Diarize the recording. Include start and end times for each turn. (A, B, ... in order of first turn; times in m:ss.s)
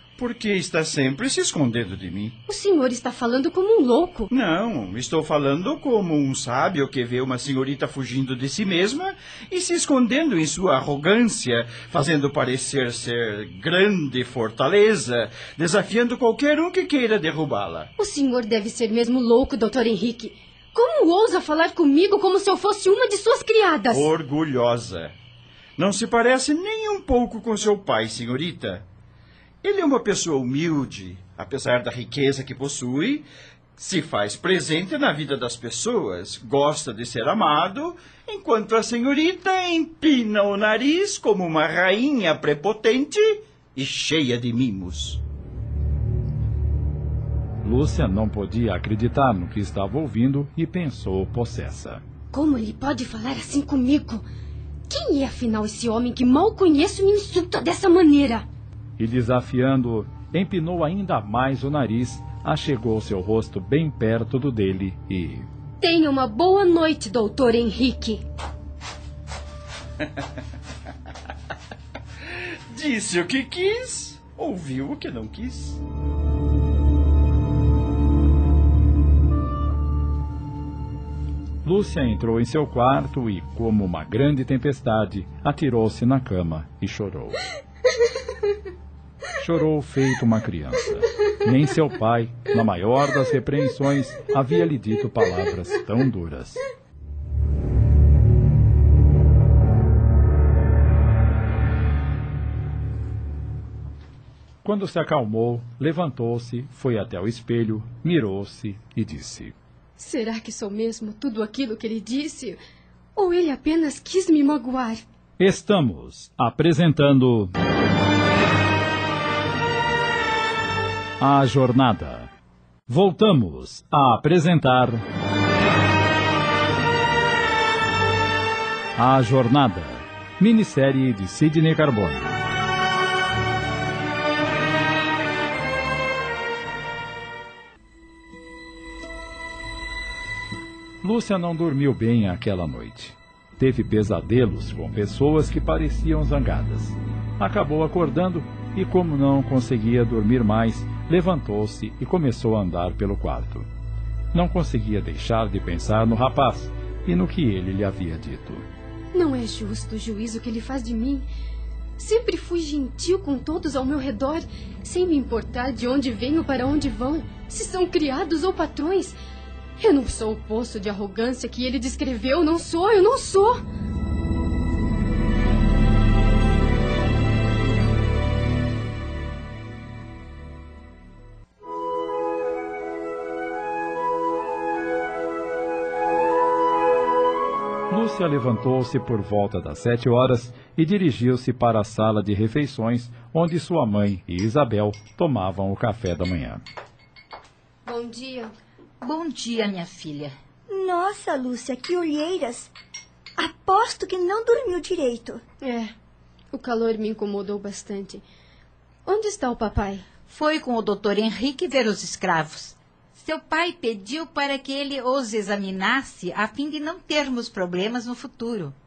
0:00.2-0:02.4 A
0:02.5-0:04.3 B
0:04.3-0:17.9 A
0:18.0-0:24.1 B
0:23.9-0:25.2 A
0:25.8-0:28.8 A
0:29.6-0:33.3 A
0:33.8-0:45.2 A
0:47.6-0:52.0 C
0:52.3-0:54.2 B
0:54.9-0:58.4 B
0:59.0-1:05.5 C
1:05.8-1:08.2 B
1:12.7-1:15.8 A
1:21.6-1:27.4 C
1:29.4-1:36.6 C
1:44.6-1:49.5 C
1:50.0-1:52.6 B
1:53.2-1:55.0 B
1:55.4-1:57.5 C
2:01.2-2:02.3 C
2:02.9-2:05.0 C
2:09.0-2:12.3 C
2:21.0-2:33.7 C
2:34.3-2:38.6 C
2:39.1-2:41.3 B
2:42.0-2:49.2 B
2:49.8-2:53.6 B
3:07.9-3:16.6 C
3:17.9-3:18.5 B
3:19.0-3:20.3 D
3:20.7-3:22.7 E
3:23.4-3:25.4 E
3:25.6-3:25.9 B
3:26.5-3:28.2 B
3:29.1-3:30.1 B
3:30.3-3:38.7 D